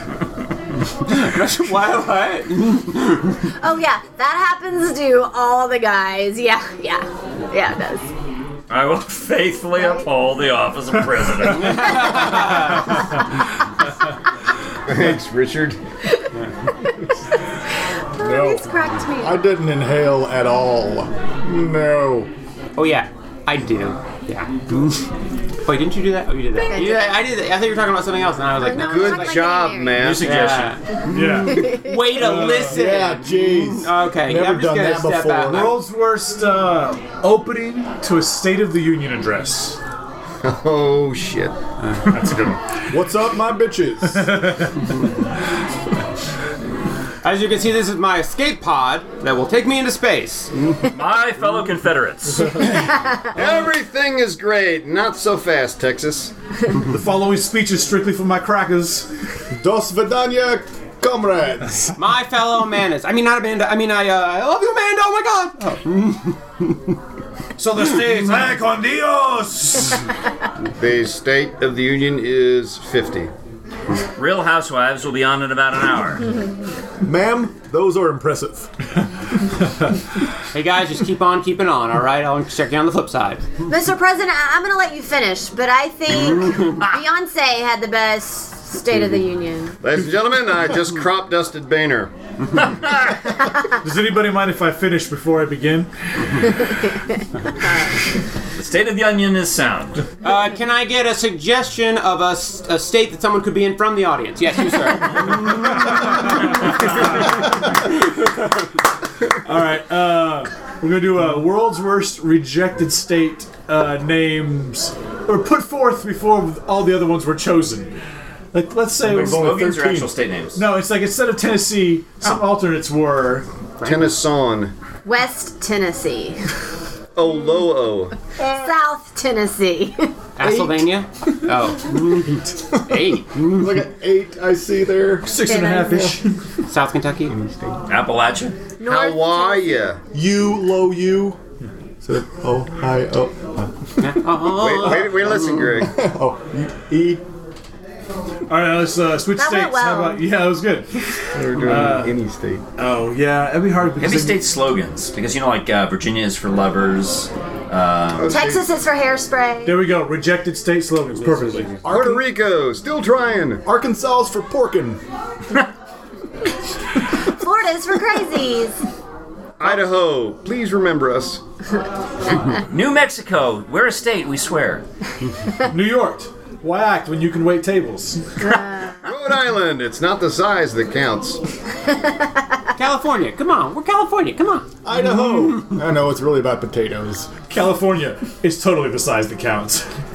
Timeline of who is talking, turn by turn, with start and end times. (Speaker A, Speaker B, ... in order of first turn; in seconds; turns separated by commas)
Speaker A: 1.0-3.4, Speaker B: 3.6-8.1, Speaker C: 8.7-12.7, Speaker A: 11.5-13.0, Speaker D: 14.9-15.8, Speaker B: 18.2-19.4, Speaker E: 18.2-22.3, Speaker A: 22.8-25.1, Speaker A: 25.6-29.5, Speaker B: 26.7-27.2, Speaker B: 28.6-30.2, Speaker D: 28.8-30.4, Speaker C: 30.0-30.8, Speaker A: 30.2-35.8, Speaker F: 31.1-32.8, Speaker B: 31.3-32.2, Speaker E: 32.7-35.8, Speaker F: 35.5-39.8, Speaker D: 40.4-41.5, Speaker F: 42.1-42.8, Speaker E: 42.9-44.3, Speaker F: 44.1-44.9, Speaker A: 47.2-50.8, Speaker C: 50.9-52.7, Speaker D: 52.8-56.3, Speaker F: 56.9-59.1, Speaker E: 59.5-61.9, Speaker A: 62.0-67.0, Speaker F: 67.6-70.0, Speaker D: 70.8-73.3, Speaker C: 74.2-76.3, Speaker E: 77.0-78.7, Speaker A: 80.5-83.5, Speaker B: 83.7-89.8, Speaker A: 86.2-86.8, Speaker D: 89.8-92.1, Speaker F: 93.8-95.9, Speaker C: 98.6-100.1, Speaker A: 100.2-107.4, Speaker F: 109.3-117.9, Speaker F: 118.5-119.5, Speaker E: 119.0-120.1, Speaker C: 119.1-120.6, Speaker F: 120.5-123.5, Speaker A: 123.8-124.2, Speaker D: 123.8-124.7, Speaker B: 125.0-126.4, Speaker D: 127.2-128.2, Speaker B: 128.4-130.1, Speaker A: 130.4-133.8, Speaker E: 130.4-130.9, Speaker E: 133.3-135.3, Speaker F: 135.2-136.4, Speaker B: 135.4-136.2, Speaker A: 136.7-137.4, Speaker C: 137.9-138.6, Speaker B: 138.8-139.8, Speaker D: 138.8-140.0, Speaker E: 140.1-141.4, Speaker E: 142.0-144.2, Speaker A: 144.0-145.8, Speaker D: 144.5-145.9, Speaker E: 145.5-147.2, Speaker F: 148.5-152.2, Speaker B: 149.4-150.2, Speaker D: 151.3-152.6, Speaker F: 152.8-154.4, Speaker C: 154.0-158.4, Speaker D: 158.2-158.6, Speaker B: 158.2-159.8, Speaker F: 159.7-161.8, Speaker A: 161.3-161.7, Speaker E: 161.8-162.3, Speaker D: 161.9-163.6, Speaker E: 163.7-165.0, Speaker B: 167.3-168.8, Speaker D: 169.6-171.4, Speaker C: 172.7-174.8, Speaker F: 175.6-178.2, Speaker B: 178.4-179.0, Speaker D: 179.0-181.4, Speaker A: 182.8-184.7, Speaker E: 184.8-187.3, Speaker F: 187.5-189.9